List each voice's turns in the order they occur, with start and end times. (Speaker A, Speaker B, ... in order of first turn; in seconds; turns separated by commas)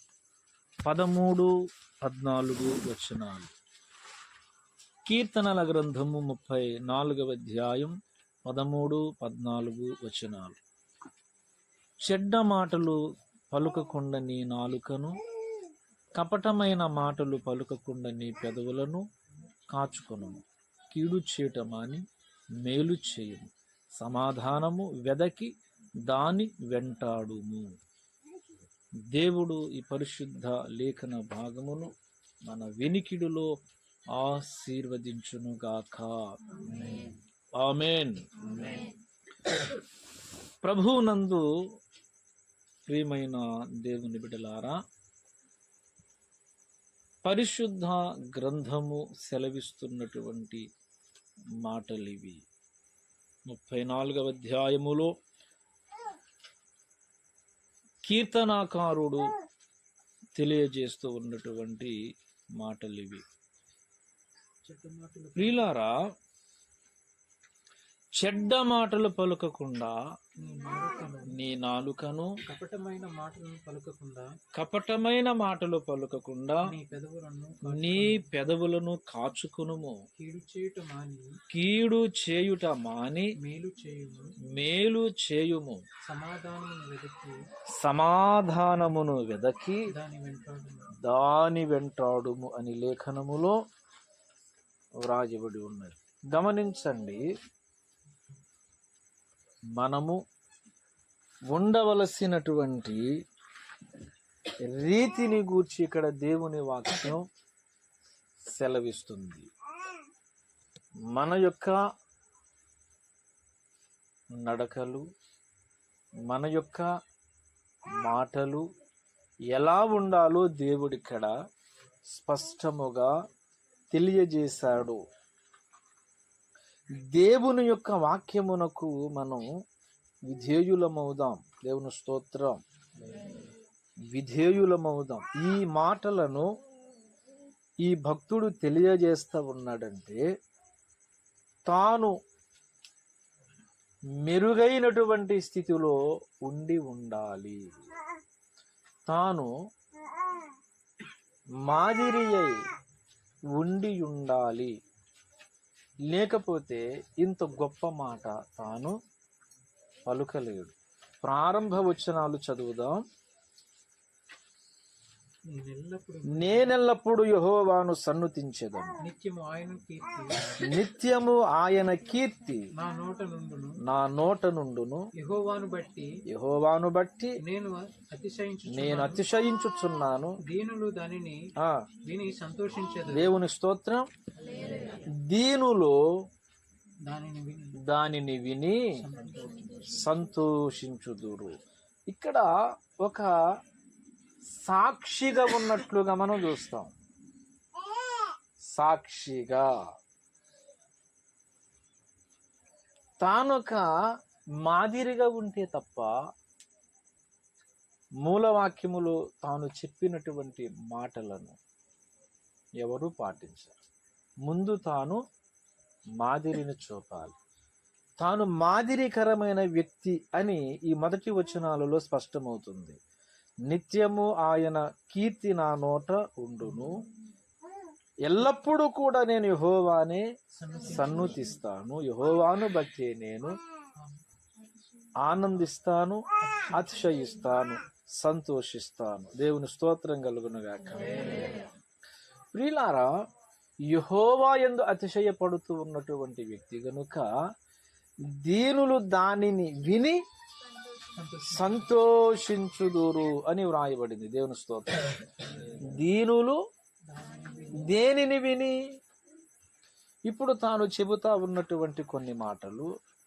Speaker A: 0.8-3.5, Speaker A: 5.0-7.9, Speaker A: 8.4-10.6, Speaker A: 12.0-13.0, Speaker A: 13.5-15.2, Speaker A: 16.1-19.0, Speaker A: 19.7-22.0, Speaker A: 22.6-25.5, Speaker A: 26.0-27.7, Speaker A: 29.1-31.9, Speaker A: 32.5-33.5, Speaker A: 34.1-38.7, Speaker A: 40.6-41.5, Speaker A: 42.9-44.8, Speaker A: 47.2-50.6, Speaker A: 51.6-52.4, Speaker A: 53.5-55.1, Speaker A: 58.0-59.3, Speaker A: 60.4-62.0, Speaker A: 62.5-63.2, Speaker B: 64.6-65.7, Speaker A: 65.4-66.0, Speaker A: 68.1-70.0, Speaker B: 70.4-71.4, Speaker A: 71.3-72.3, Speaker B: 72.5-74.4, Speaker A: 74.5-76.7, Speaker B: 76.6-78.3, Speaker A: 77.6-80.0, Speaker B: 80.2-81.4, Speaker A: 81.5-83.3, Speaker B: 83.4-84.3, Speaker A: 84.5-85.8, Speaker B: 86.0-87.4, Speaker A: 87.7-89.9, Speaker B: 89.9-90.9, Speaker A: 91.0-93.5, Speaker A: 95.0-97.2, Speaker A: 99.8-100.2, Speaker A: 101.5-103.2, Speaker A: 104.6-107.2, Speaker A: 108.5-109.5, Speaker A: 111.1-111.8, Speaker A: 114.4-115.0, Speaker A: 116.2-116.9, Speaker A: 118.0-118.6, Speaker A: 119.5-121.3, Speaker A: 122.1-123.1, Speaker A: 123.9-125.0, Speaker A: 126.9-129.4, Speaker A: 130.2-132.6, Speaker A: 134.1-136.5, Speaker A: 137.8-140.2, Speaker A: 141.7-142.2, Speaker A: 144.1-147.7, Speaker A: 149.1-149.5, Speaker A: 151.6-152.6, Speaker A: 153.5-154.8, Speaker A: 156.1-159.0, Speaker A: 160.1-163.0, Speaker B: 165.5-166.8, Speaker A: 166.3-169.0, Speaker B: 169.0-170.4, Speaker A: 170.6-172.7, Speaker B: 172.8-173.8, Speaker A: 173.8-175.0, Speaker B: 175.2-176.2, Speaker A: 176.3-177.4, Speaker B: 177.4-179.2, Speaker A: 178.7-180.4, Speaker B: 180.4-181.5, Speaker A: 181.6-181.8, Speaker B: 182.0-183.3, Speaker A: 183.1-184.1, Speaker A: 185.1-186.0, Speaker B: 187.0-187.8, Speaker A: 187.8-189.0, Speaker B: 189.0-190.0, Speaker A: 189.8-191.6, Speaker A: 192.1-193.4, Speaker A: 194.5-196.9, Speaker A: 198.6-199.8, Speaker A: 203.2-203.9, Speaker A: 204.6-206.2, Speaker A: 208.2-211.6, Speaker A: 212.8-213.8, Speaker A: 214.4-215.2, Speaker A: 216.2-217.3, Speaker A: 218.2-223.0, Speaker A: 223.7-227.0, Speaker A: 228.2-230.2, Speaker B: 230.5-231.5, Speaker A: 230.8-233.6, Speaker A: 235.2-241.5, Speaker B: 236.4-236.9, Speaker A: 242.5-243.1, Speaker A: 243.9-247.3, Speaker A: 248.2-250.2, Speaker B: 251.1-251.9, Speaker A: 251.4-256.6, Speaker B: 257.1-257.9, Speaker A: 257.7-258.8, Speaker A: 260.3-262.9